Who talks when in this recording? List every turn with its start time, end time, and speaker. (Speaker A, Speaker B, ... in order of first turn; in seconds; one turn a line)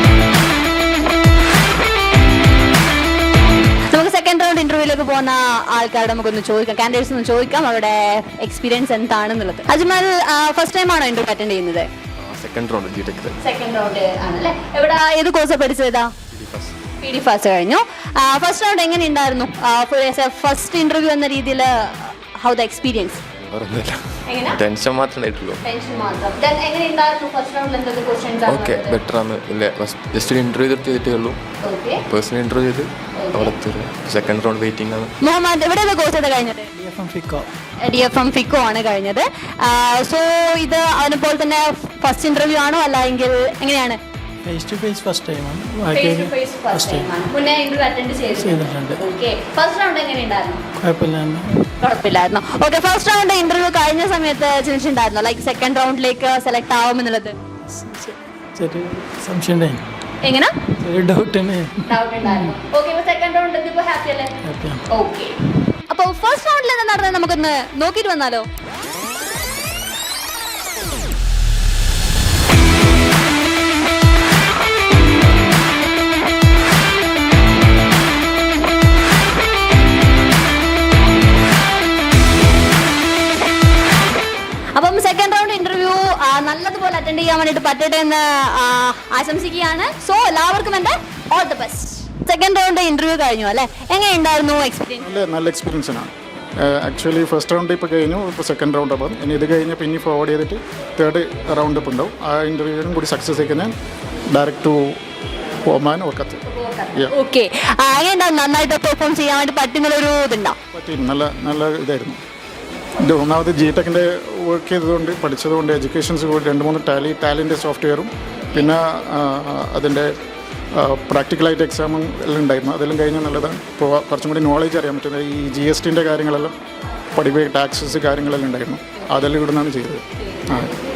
Speaker A: 3.9-11.9
Speaker B: 12.2-13.4
Speaker A: 13.4-16.1
Speaker B: 16.3-16.7
Speaker A: 17.0-23.2
Speaker B: 23.4-25.6
Speaker A: 24.3-24.6
Speaker A: 25.6-29.0
Speaker B: 28.5-31.4
Speaker A: 31.6-32.0
Speaker B: 32.0-35.1
Speaker A: 33.1-33.6
Speaker A: 35.2-36.7
Speaker C: 36.8-37.5
Speaker A: 37.8-44.0
Speaker C: 44.4-47.1
Speaker A: 45.9-50.6
Speaker C: 48.4-49.0
Speaker C: 50.8-51.7
Speaker A: 51.8-57.4
Speaker C: 57.7-59.9
Speaker A: 60.2-60.5
Speaker C: 60.8-62.5
Speaker A: 61.9-64.3
Speaker C: 64.4-64.8
Speaker A: 64.9-65.4
Speaker A: 65.9-68.5
Speaker A: 84.7-95.1
Speaker D: 95.0-103.7
Speaker D: 104.3-105.0
Speaker D: 105.7-106.4
Speaker A: 106.5-110.6
Speaker D: 110.7-112.2
Speaker D: 113.0-120.1
Speaker D: 120.7-126.6
Speaker D: 127.2-130.8